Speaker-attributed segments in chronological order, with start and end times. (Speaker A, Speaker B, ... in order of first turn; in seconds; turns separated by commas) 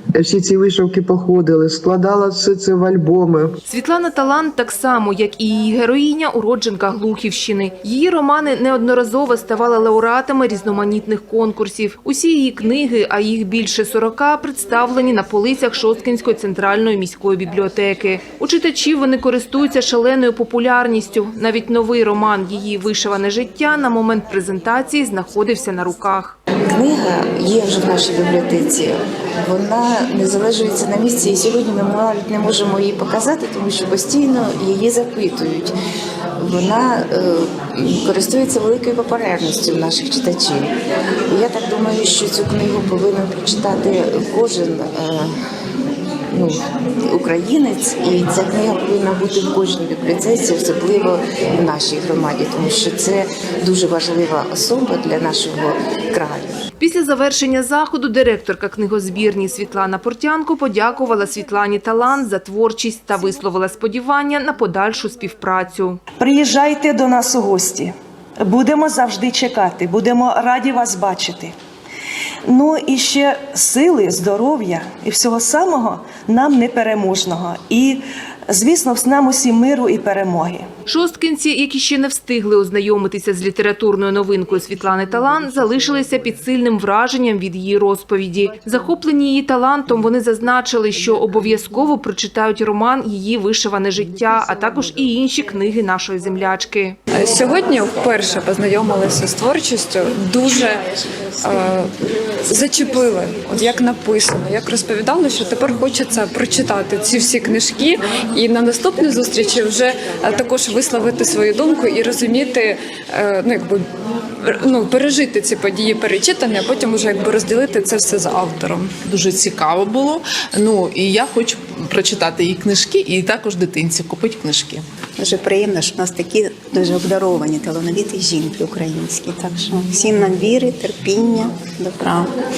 Speaker A: 0.1-3.5, Speaker B: 3.7-26.4, Speaker C: 26.7-35.7, Speaker C: 36.4-40.7, Speaker C: 41.3-45.3, Speaker C: 46.3-56.6, Speaker B: 56.8-66.0, Speaker D: 66.2-71.5, Speaker D: 72.5-80.7, Speaker B: 80.9-97.0, Speaker A: 94.5-94.8, Speaker E: 97.1-100.8, Speaker E: 101.4-101.9, Speaker E: 102.4-113.8, Speaker E: 114.4-118.9, Speaker F: 119.1-124.8, Speaker G: 125.2-132.3